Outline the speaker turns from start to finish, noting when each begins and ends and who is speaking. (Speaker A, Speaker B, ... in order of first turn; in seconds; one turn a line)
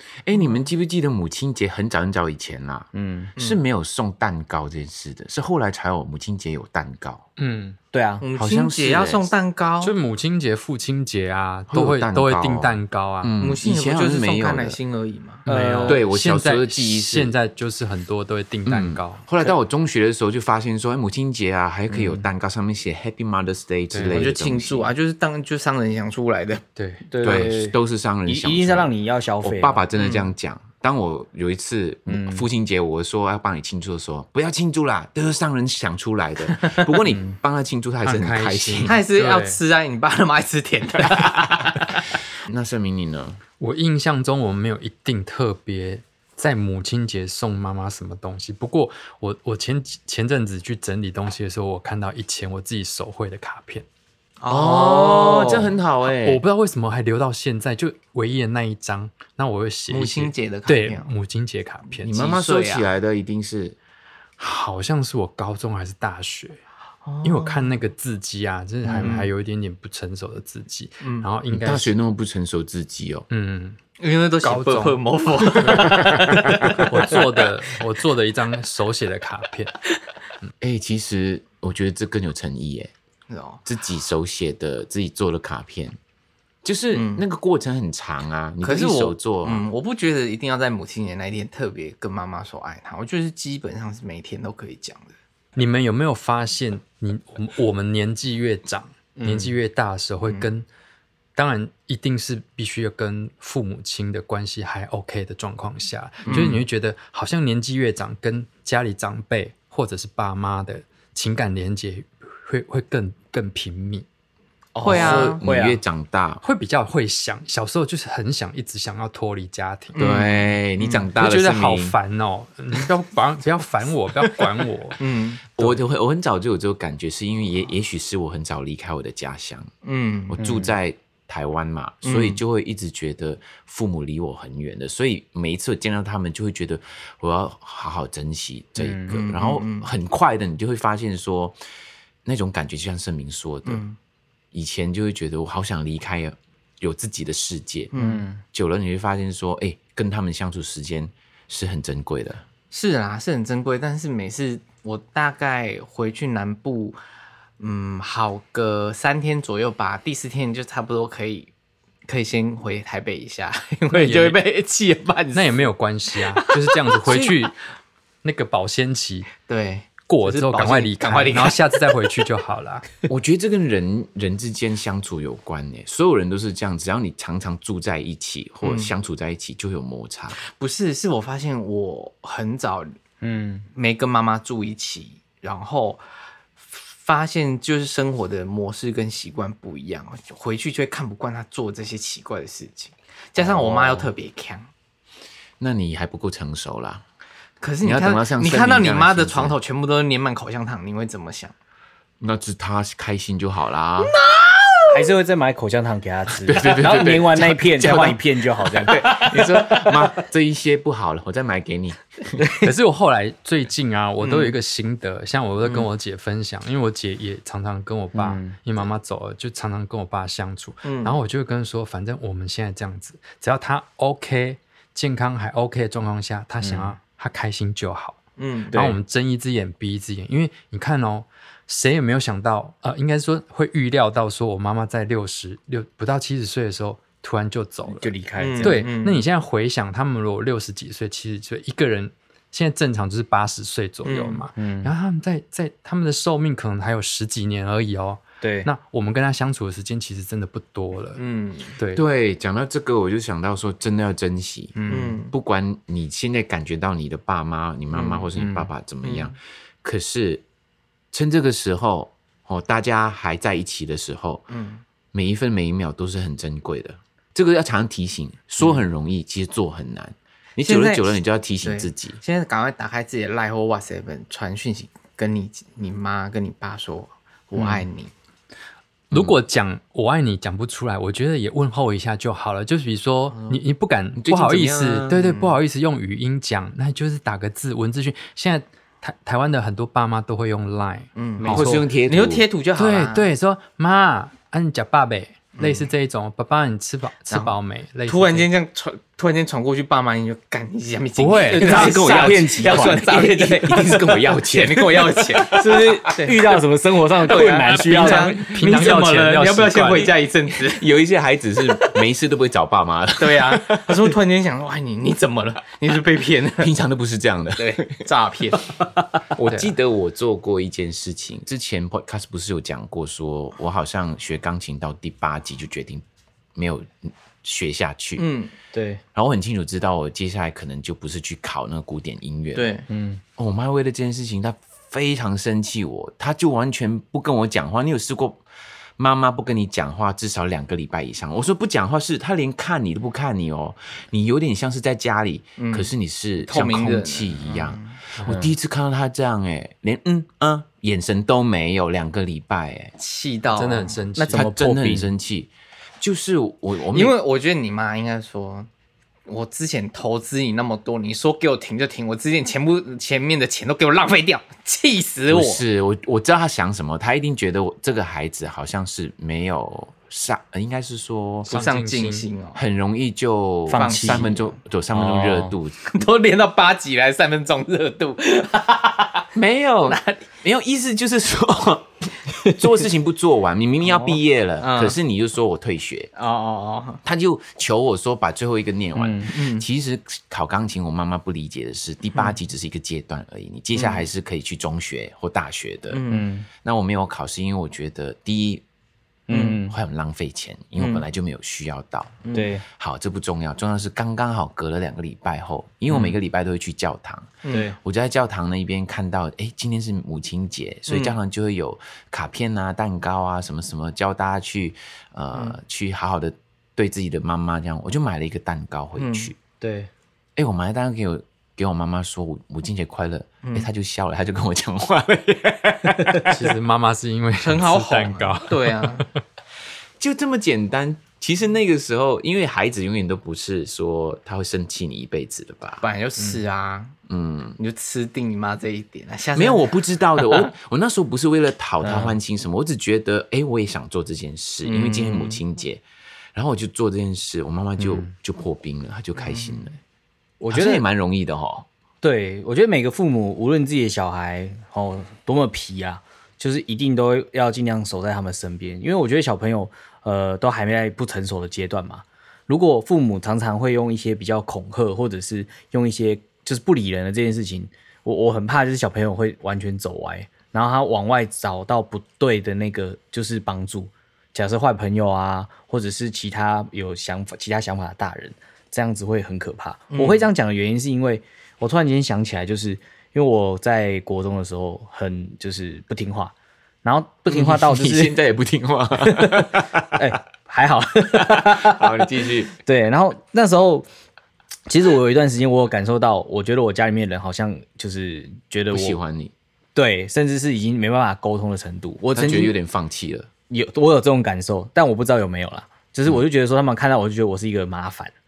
Speaker A: 0.2-7.2
Speaker B: 0.3-0.7
Speaker C: 2.9-3.3
Speaker D: 7.4-7.8
Speaker C: 7.9-8.2
Speaker B: 8.2-9.9
Speaker A: 8.4-9.3
Speaker D: 9.8-13.3
Speaker A: 11.7-14.8
Speaker B: 13.4-15.4
Speaker D: 15.4-19.2
Speaker C: 15.5-16.0
Speaker A: 15.8-17.3
Speaker A: 18.6-24.9
Speaker C: 21.9-22.3
Speaker D: 23.9-24.3
Speaker B: 24.1-26.6
Speaker D: 26.7-27.0
Speaker C: 27.1-27.7
Speaker A: 27.2-28.9
Speaker C: 28.3-29.8
Speaker A: 29.4-39.0
Speaker B: 29.9-30.3
Speaker C: 32.1-32.5
Speaker D: 38.0-39.6
Speaker B: 38.8-42.0
Speaker A: 42.5-43.4
Speaker D: 43.6-53.9
Speaker B: 54.4-55.7
Speaker A: 54.5-56.4
Speaker D: 56.1-62.1
Speaker B: 59.9-61.1
Speaker A: 62.0-63.8
Speaker B: 62.0-62.9
Speaker D: 64.4-66.6
Speaker B: 67.0-67.8
Speaker D: 67.2-71.9
Speaker C: 68.8-69.1
Speaker B: 69.0-69.3
Speaker B: 71.0-71.3
Speaker A: 71.5-73.3
Speaker D: 73.3-73.8
Speaker B: 74.0-77.5
Speaker D: 74.4-79.8
Speaker A: 80.6-82.9
Speaker B: 83.3-83.6
Speaker A: 83.6-86.0
Speaker A: 86.6-89.6
Speaker B: 86.9-87.2
Speaker B: 88.6-95.1
Speaker D: 95.5-100.7
Speaker C: 99.2-99.5
Speaker D: 101.3-114.0
Speaker B: 106.2-106.6
Speaker C: 114.7-115.8
Speaker B: 114.8-115.4
Speaker A: 114.8-116.4
Speaker D: 114.9-115.3
Speaker D: 116.4-120.0
Speaker B: 119.9-121.1
Speaker A: 120.0-122.0
Speaker D: 121.2-125.0
Speaker B: 125.0-125.4
Speaker A: 125.6-129.7
Speaker B: 129.8-130.4
Speaker A: 130.3-141.6
Speaker C: 130.4-130.7
Speaker B: 132.0-132.4
Speaker C: 138.8-139.1
Speaker B: 139.1-139.9
Speaker A: 142.2-143.8
Speaker B: 143.6-144.0
Speaker A: 144.5-147.9
Speaker B: 147.9-148.2
Speaker C: 147.9-148.4
Speaker A: 148.5-152.4
Speaker B: 152.7-157.0
Speaker B: 157.6-161.5
Speaker B: 162.1-165.7
Speaker D: 163.9-164.4
Speaker D: 165.3-167.6
Speaker B: 166.3-167.3
Speaker A: 167.1-167.3
Speaker D: 168.2-169.3
Speaker B: 169.5-172.1
Speaker D: 170.1-172.9
Speaker A: 173.1-180.4
Speaker B: 178.6-178.9
Speaker B: 180.4-182.9
Speaker C: 183.2-183.7
Speaker B: 183.7-186.0
Speaker B: 186.7-194.7
Speaker A: 193.4-194.1
Speaker A: 195.6-197.0
Speaker B: 197.6-201.5
Speaker A: 197.8-199.6
Speaker A: 202.2-204.1
Speaker B: 204.0-205.0
Speaker C: 204.9-210.1
Speaker A: 206.4-208.2
Speaker A: 208.7-212.4
Speaker C: 212.4-212.7
Speaker D: 212.6-228.2
Speaker B: 214.2-214.6
Speaker C: 218.1-218.6
Speaker B: 220.8-221.2
Speaker C: 226.6-226.9
Speaker B: 228.4-229.0
Speaker D: 228.7-251.2
Speaker C: 237.9-238.8
Speaker B: 238.4-239.2
Speaker B: 244.0-244.4
Speaker C: 244.6-244.9
Speaker C: 248.4-248.7
Speaker B: 251.2-251.8
Speaker D: 251.8-252.0
Speaker A: 251.9-260.4
Speaker C: 254.8-255.2
Speaker B: 254.9-255.3
Speaker B: 257.9-258.2
Speaker C: 258.3-258.7
Speaker B: 259.0-259.3
Speaker A: 261.1-264.5
Speaker B: 264.5-264.8
Speaker A: 265.1-272.2
Speaker B: 270.6-278.1
Speaker A: 279.1-279.4
Speaker D: 279.1-291.9
Speaker B: 283.3-283.6
Speaker A: 284.1-285.3
Speaker B: 285.3-285.5
Speaker B: 291.1-293.3
Speaker A: 291.5-292.4
Speaker D: 292.8-298.5
Speaker B: 295.5-295.9
Speaker B: 297.3-297.5
Speaker B: 298.1-306.4
Speaker D: 301.2-302.0
Speaker C: 301.5-303.3
Speaker A: 302.7-306.0
Speaker C: 305.5-308.8
Speaker B: 307.2-310.8
Speaker D: 307.6-310.1
Speaker A: 310.6-314.1
Speaker B: 313.2-316.7
Speaker A: 316.6-318.1
Speaker B: 317.6-318.7
Speaker A: 319.3-326.0
Speaker A: 326.6-328.2
Speaker B: 328.2-328.5
Speaker C: 328.7-329.0
Speaker A: 329.1-332.7
Speaker B: 332.5-332.9
Speaker C: 332.9-333.2
Speaker A: 333.4-338.4
Speaker A: 339.0-352.9
Speaker B: 345.6-345.9
Speaker B: 346.4-347.9
Speaker C: 348.3-348.5
Speaker B: 353.0-354.0
Speaker D: 353.5-354.5
Speaker C: 354.1-355.1
Speaker A: 354.3-357.1
Speaker B: 356.9-358.7
Speaker B: 359.3-365.6
Speaker A: 365.3-371.5
Speaker B: 371.4-372.6
Speaker D: 371.5-372.2
Speaker A: 372.5-375.8
Speaker C: 373.7-374.3
Speaker B: 373.7-374.6
Speaker C: 374.9-375.6
Speaker B: 375.8-379.2
Speaker A: 379.3-386.1
Speaker B: 379.8-380.2
Speaker B: 384.6-384.9
Speaker B: 386.1-387.0
Speaker A: 387.0-396.0
Speaker C: 388.9-389.3
Speaker B: 389.3-389.6
Speaker B: 393.7-394.1
Speaker B: 395.9-396.3
Speaker C: 396.1-396.5
Speaker A: 396.6-398.6
Speaker C: 399.3-399.8
Speaker B: 399.3-399.6
Speaker A: 399.6-419.4
Speaker B: 400.8-401.0
Speaker C: 402.3-402.6
Speaker C: 407.5-407.8
Speaker B: 410.9-411.2
Speaker B: 419.0-419.3
Speaker C: 419.6-419.9
Speaker A: 420.4-426.4
Speaker D: 426.2-429.1
Speaker B: 427.4-429.1
Speaker A: 430.0-435.8
Speaker B: 435.8-436.9
Speaker A: 437.1-437.6
Speaker B: 437.6-440.4
Speaker A: 439.3-445.8
Speaker C: 441.8-442.2
Speaker B: 444.6-445.4
Speaker A: 446.3-449.8
Speaker C: 447.8-448.1
Speaker B: 449.2-449.6
Speaker C: 450.4-450.8
Speaker A: 450.5-451.6
Speaker C: 452.0-488.2
Speaker B: 479.9-480.2
Speaker A: 487.3-490.1
Speaker C: 489.0-493.9
Speaker A: 491.2-492.5
Speaker C: 494.7-499.0
Speaker A: 498.7-499.3
Speaker C: 499.7-502.6
Speaker A: 502.1-503.3
Speaker C: 503.5-508.1